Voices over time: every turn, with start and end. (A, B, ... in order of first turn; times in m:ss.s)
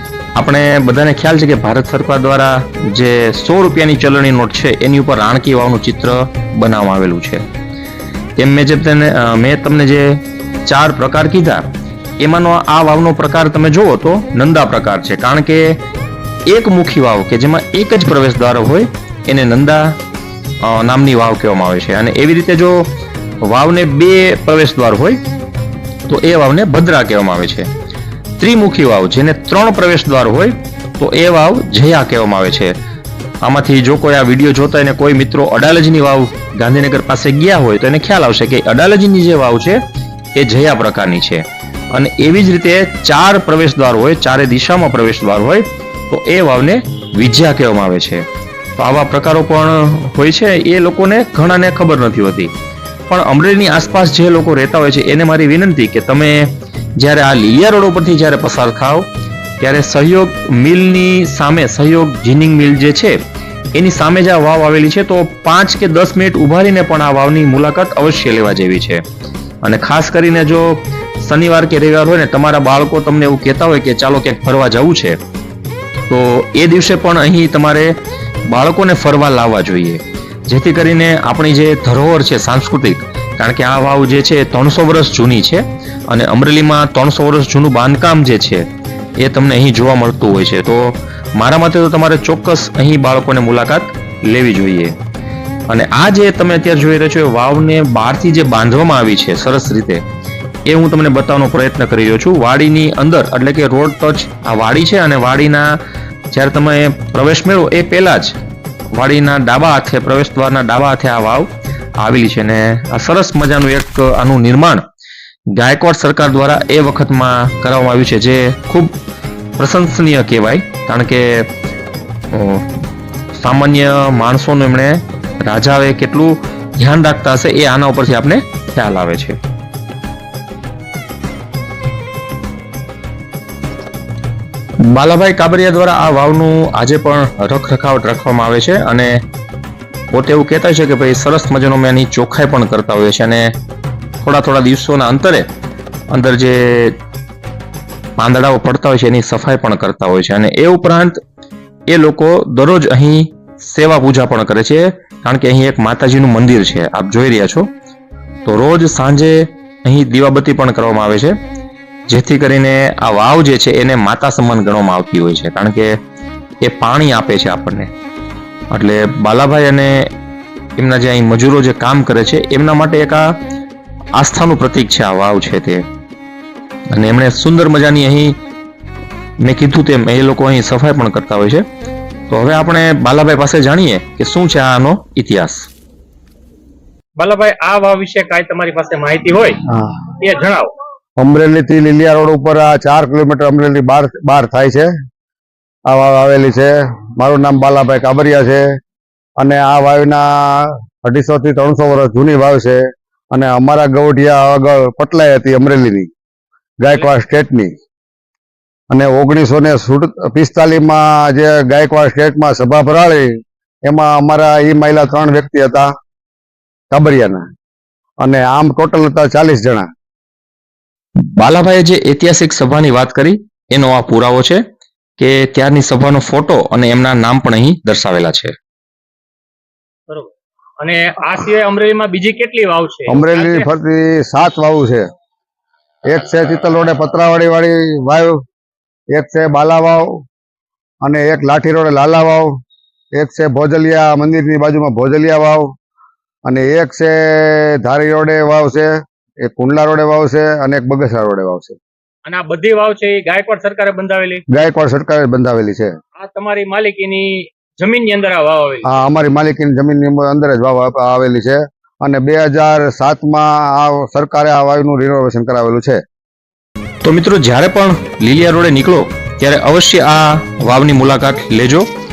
0:00.4-0:07.4 A
0:08.4-0:11.6 A
0:12.2-0:15.8 A
0:16.5-0:20.0 A
0:20.6-0:25.2 A
0:26.1-0:27.7 A
0:28.4-0:32.8 A
0:33.4-0:39.8 A
0:40.4-0:48.2 A
0:48.8-0:52.5 A
0:53.1-0:59.1 A
0:59.6-1:03.2 A
1:03.8-1:09.0 A
1:09.6-1:15.2 A
1:16.1-1:28.7 A
1:29.2-1:35.0 A
1:35.7-1:40.0 A
1:40.7-1:48.4 A
1:48.9-1:54.8 A
1:55.6-1:58.9 A
1:59.6-2:01.5 A
2:02.3-2:02.7 A
2:03.3-2:09.4 A
2:14.8-2:19.2 A
2:20.1-2:23.5 A
2:24.2-2:25.5 A
2:26.1-2:27.0 A
2:28.2-2:31.2 A
2:31.9-2:37.7 A
2:38.4-2:41.4 A
2:42.1-2:46.0 A
2:46.6-2:47.9 A
2:48.7-2:50.1 A
2:50.8-2:53.4 A
2:54.2-2:55.8 A
2:56.9-2:58.4 A
2:59.4-3:01.6 A
3:02.3-3:05.7 A
3:07.2-3:09.6 B
3:10.2-3:10.7 B
3:11.2-3:14.9 C
3:15.9-3:18.7 C
3:19.4-3:26.1 C
3:26.8-3:27.7 C
3:28.9-3:33.3 C
3:33.9-3:35.9 C
3:36.9-3:37.4 C
3:38.2-3:39.9 C
3:41.2-3:44.6 A
3:45.2-3:48.5 A
3:50.1-3:53.7 B
3:53.1-3:55.0 C
3:56.1-3:58.4 C
3:59.1-4:00.1 C
4:01.0-4:02.5 C
4:03.2-4:05.7 C
4:06.5-4:08.9 C
4:09.4-4:11.8 C
4:12.2-4:14.4 B
4:14.5-4:15.9 C
4:16.2-4:18.9 B
4:18.8-4:26.0 C
4:27.0-4:31.9 A